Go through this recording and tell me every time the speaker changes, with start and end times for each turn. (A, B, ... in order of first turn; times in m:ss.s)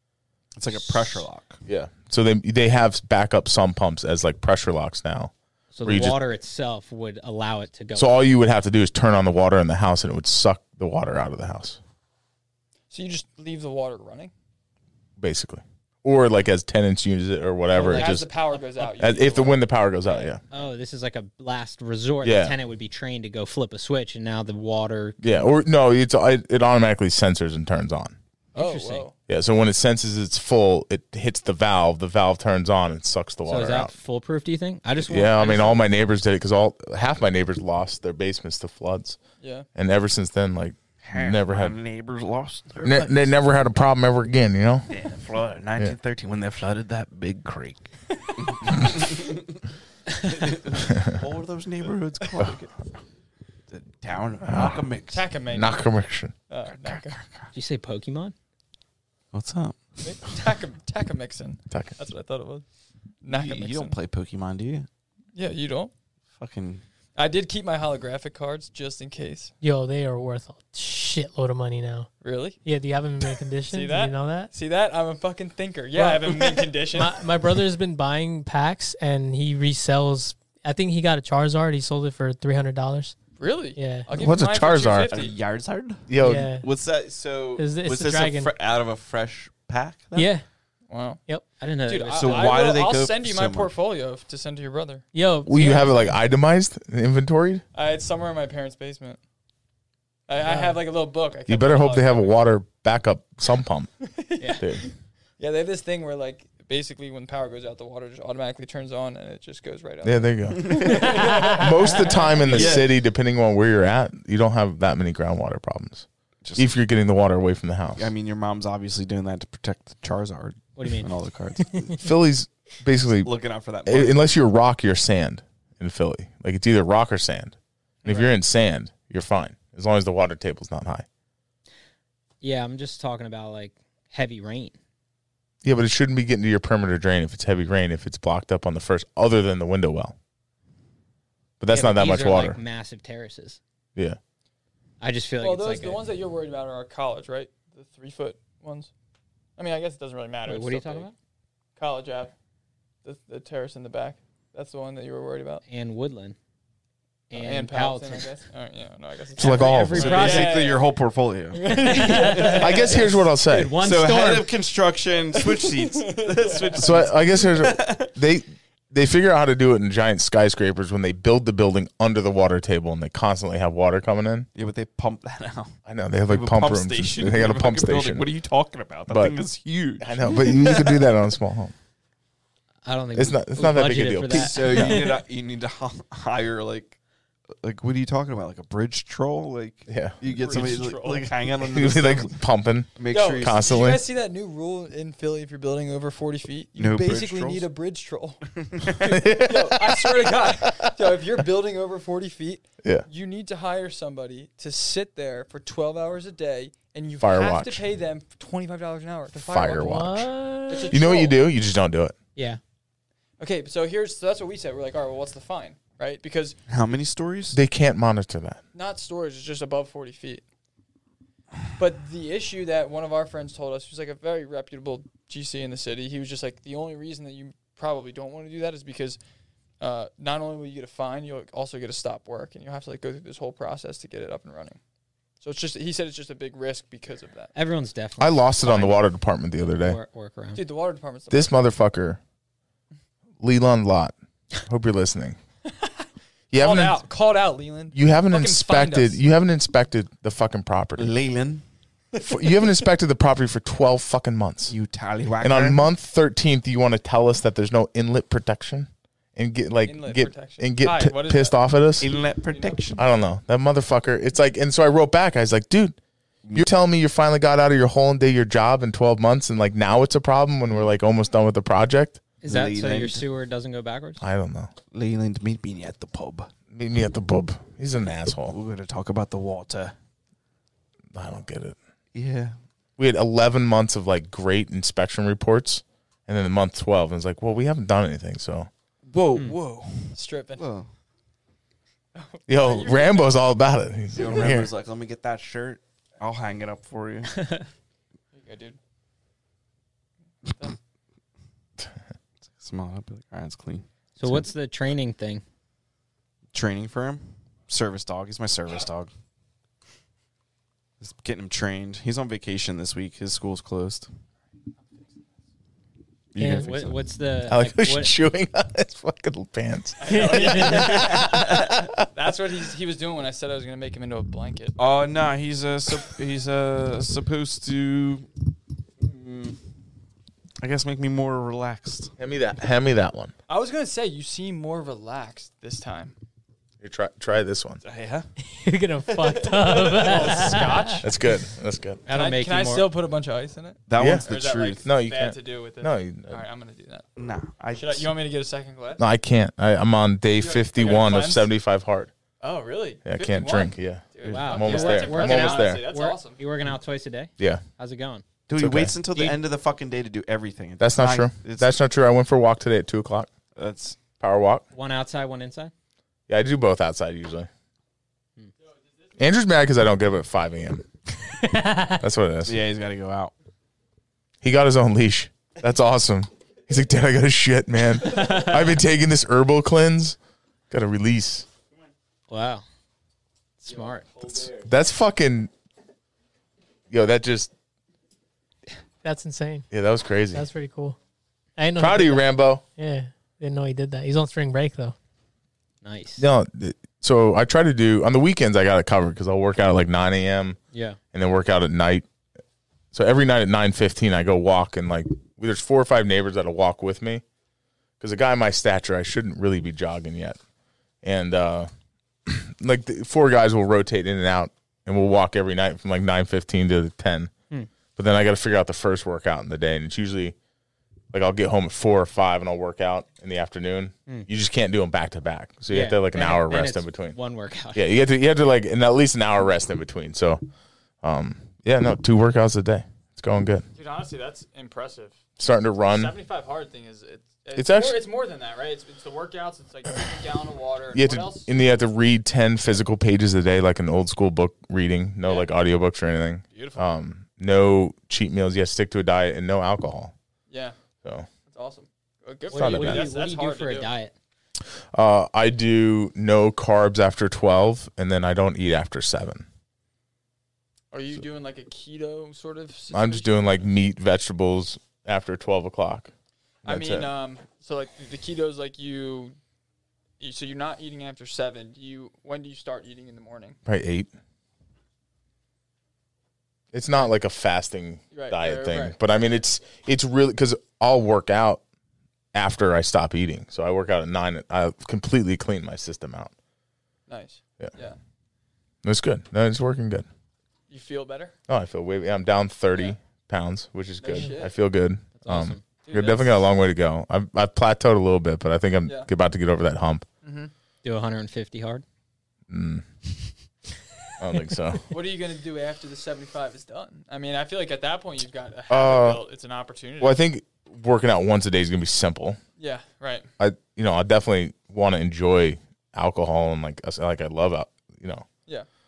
0:00.6-0:01.6 A
0:00.8-0:01.2 B
0:01.7-0:05.3 C
0:05.7-0:08.2 B
0:05.8-0:06.2 C
0:08.0-0:11.8 C
0:12.9-0:14.3 D
0:15.2-0:18.3 C
0:17.7-0:20.6 D
0:17.8-0:18.1 B
0:19.0-0:20.4 C
0:20.5-0:25.6 B
0:22.2-0:22.5 C
0:25.2-0:28.2 C
0:28.5-0:29.1 D
0:28.6-0:29.1 B
0:29.3-0:33.9 C
0:33.4-0:35.8 B
0:35.0-0:39.2 C
0:39.4-0:39.7 D
0:39.8-0:41.8 C
0:41.0-0:43.4 A
0:42.8-0:45.0 C
0:44.9-0:47.8 A
0:48.4-0:49.6 A
0:50.1-0:52.8 A
0:53.7-0:55.2 A
0:54.4-0:54.8 C
0:55.1-0:55.8 D
0:55.5-0:56.4 C
0:56.5-0:57.2 D
0:57.5-0:58.3 B
0:59.3-0:59.8 A
1:00.0-1:02.6 D
1:03.2-1:04.0 D
1:03.3-1:04.9 A
1:05.3-1:05.9 D
1:06.4-1:06.8 A
1:07.2-1:09.5 D
1:09.6-1:12.1 E
1:12.2-1:12.6 D
1:12.6-1:14.5 E
1:13.7-1:17.3 D
1:16.2-1:16.7 A
1:16.9-1:23.1 E
1:23.4-1:25.3 D
1:23.8-1:24.1 E
1:24.1-1:25.2 C
1:25.1-1:30.3 A
1:26.1-1:26.5 C
1:26.2-1:26.7 E
1:27.6-1:28.5 E
1:30.1-1:30.4 E
1:30.9-1:31.2 D
1:31.6-1:32.6 B
1:31.8-1:35.0 D
1:32.2-1:33.7 A
1:35.1-1:36.1 E
1:35.4-1:37.6 C
1:35.6-1:35.9 D
1:37.7-1:39.2 D
1:40.3-1:42.4 D
1:41.5-1:43.9 C
1:44.0-1:44.9 D
1:44.6-1:44.8 C
1:45.4-1:52.6 D
1:50.0-1:58.1 C
1:50.5-1:51.3 A
1:50.9-1:51.6 E
1:52.5-1:52.7 B
1:52.5-1:52.9 A
1:56.4-1:56.7 A
1:58.0-2:02.0 A
2:00.8-2:01.1 B
2:02.0-2:03.3 C
2:03.2-2:04.2 A
2:03.8-2:11.1 C
2:08.0-2:08.3 D
2:12.4-2:14.8 B
2:15.6-2:20.2 C
2:21.6-2:22.6 C
2:21.7-2:23.6 B
2:25.0-2:26.0 B
2:25.4-2:28.9 D
2:29.6-2:31.1 D
2:30.4-2:31.1 B
2:31.8-2:32.3 D
2:33.0-2:35.6 D
2:35.7-2:36.4 B
2:37.3-2:38.3 B
2:37.3-2:40.9 D
2:39.4-2:40.2 C
2:39.4-2:40.6 B
2:39.9-2:43.1 A
2:41.5-2:43.0 D
2:41.7-2:44.5 B
2:42.5-2:43.8 C
2:43.8-2:48.1 A
2:45.3-2:47.0 D
2:46.8-2:54.5 C
2:54.5-2:55.8 A
2:55.8-2:58.2 C
2:56.3-3:01.1 A
2:59.1-2:59.4 C
3:00.0-3:01.7 C
3:02.8-3:05.1 B
3:03.2-3:05.0 C
3:04.3-3:07.0 A
3:07.6-3:12.4 A
3:09.9-3:10.2 C
3:10.2-3:11.3 D
3:11.6-3:14.0 C
3:13.0-3:13.9 A
3:13.1-3:30.1 D
3:16.8-3:17.6 A
3:18.6-3:19.1 A
3:19.0-3:20.9 C
3:27.2-3:27.8 C
3:29.3-3:30.3 C
3:29.8-3:31.0 E
3:30.7-3:31.4 D
3:30.9-3:32.1 C
3:33.4-3:36.6 D
3:36.7-3:37.6 A
3:37.5-3:38.6 C
3:38.7-3:40.4 D
3:41.8-3:49.2 D
3:49.8-3:54.8 D
3:55.4-3:57.5 D
3:57.5-3:59.0 B
3:58.2-4:00.0 C
3:59.7-4:00.6 B
4:00.5-4:01.6 D
4:01.3-4:02.2 C
4:03.4-4:04.1 C
4:04.6-4:05.4 C
4:05.6-4:09.2 D
4:06.5-4:07.0 C
4:07.9-4:11.1 C
4:11.0-4:11.6 A
4:12.1-4:12.7 D
4:12.2-4:14.7 C
4:14.7-4:15.9 A
4:15.4-4:22.1 C
4:19.8-4:22.8 D
4:22.0-4:23.0 A
4:23.0-4:26.0 C
4:26.5-4:32.2 C
4:32.4-4:34.2 B
4:32.5-4:33.2 A
4:34.2-4:34.7 C
4:34.9-4:36.5 A
4:36.7-4:38.5 C
4:38.5-4:39.9 A
4:41.1-4:41.8 C
4:42.1-4:42.6 A
4:43.0-4:48.7 C
4:49.0-4:50.9 A
4:50.1-4:50.7 D
4:52.1-4:53.4 D
4:52.5-4:54.7 C
4:54.1-4:57.5 A
4:57.4-4:57.6 B
4:58.3-4:58.8 D
5:02.4-5:04.4 A
5:04.2-5:05.4 B
5:06.5-5:09.1 A
5:11.0-5:14.1 A
5:16.3-5:17.0 A
5:16.4-5:16.7 E
5:16.4-5:18.1 B
5:17.5-5:22.0 C
5:20.0-5:21.3 D
5:20.0-5:21.2 E
5:20.4-5:21.4 A
5:22.0-5:24.7 D
5:24.8-5:28.3 A
5:29.0-5:29.6 A
5:30.6-5:32.1 A
5:32.2-5:33.3 C
5:33.5-5:36.1 D
5:36.8-5:37.8 C
5:37.8-5:38.3 A
5:38.6-5:41.0 E
5:39.0-5:40.4 A
5:39.9-5:41.1 D
5:41.0-5:42.0 C
5:42.0-5:42.9 B
5:42.1-5:47.0 D
5:43.9-5:44.8 A
5:44.0-5:44.3 C
5:44.8-5:46.4 C
5:47.2-5:48.1 A
5:47.7-5:49.0 D
5:49.0-5:52.1 C
5:50.3-5:51.5 D
5:52.4-5:56.4 D
5:53.0-5:55.8 C
5:54.2-5:58.2 B
5:58.5-6:01.7 A
5:58.5-5:59.0 C
6:00.8-6:03.3 C
6:03.5-6:04.0 A
6:04.2-6:04.6 C
6:04.7-6:05.7 B
6:06.3-6:07.5 C
6:09.2-6:10.9 C
6:11.4-6:11.9 E
6:11.8-6:12.6 C
6:12.4-6:13.3 A
6:14.4-6:20.2 C
6:18.0-6:18.8 B
6:20.7-6:21.5 C
6:22.3-6:22.6 B
6:23.6-6:24.5 B
6:24.6-6:25.5 C
6:26.9-6:27.5 C
6:29.0-6:29.7 E
6:29.7-6:30.4 C
6:30.3-6:31.0 E
6:31.6-6:34.9 E
6:31.8-6:32.6 C
6:35.8-6:36.2 B
6:36.2-6:40.6 C
6:40.7-6:41.0 B
6:41.1-6:42.0 C
6:42.9-6:47.2 C
6:48.0-6:50.4 C
6:51.0-6:51.7 C
6:52.2-6:57.3 C
6:58.0-7:00.3 C
7:01.1-7:07.2 C
7:05.7-7:07.8 B
7:07.7-7:10.4 C
7:11.0-7:13.6 C
7:13.8-7:21.5 D
7:15.4-7:16.1 C
7:17.6-7:18.0 C
7:20.9-7:30.1 C
7:25.2-7:25.5 D
7:26.5-7:26.9 D
7:30.5-7:30.7 D
7:31.5-7:33.9 D
7:32.5-7:34.1 B
7:32.5-7:33.1 C
7:34.9-7:39.4 C
7:40.9-7:43.7 D
7:42.9-7:46.1 C
7:46.6-7:47.1 C
7:46.6-7:49.4 D
7:50.2-7:53.6 D
7:53.6-7:54.1 C
7:56.7-8:01.6 C
7:58.1-7:59.0 D
8:02.3-8:06.3 C
8:07.1-8:08.0 D
8:08.8-8:10.0 C
8:10.7-8:11.3 D
8:11.5-8:20.0 C
8:14.0-8:14.5 D
8:15.2-8:15.6 B
8:15.8-8:16.4 D
8:20.2-8:20.5 D
8:20.8-8:21.8 B
8:22.5-8:22.8 C
8:24.2-8:24.8 C
8:24.9-8:30.2 D
8:28.7-8:29.2 C
8:30.0-8:32.4 C
8:32.6-8:33.3 D
8:33.4-8:38.2 C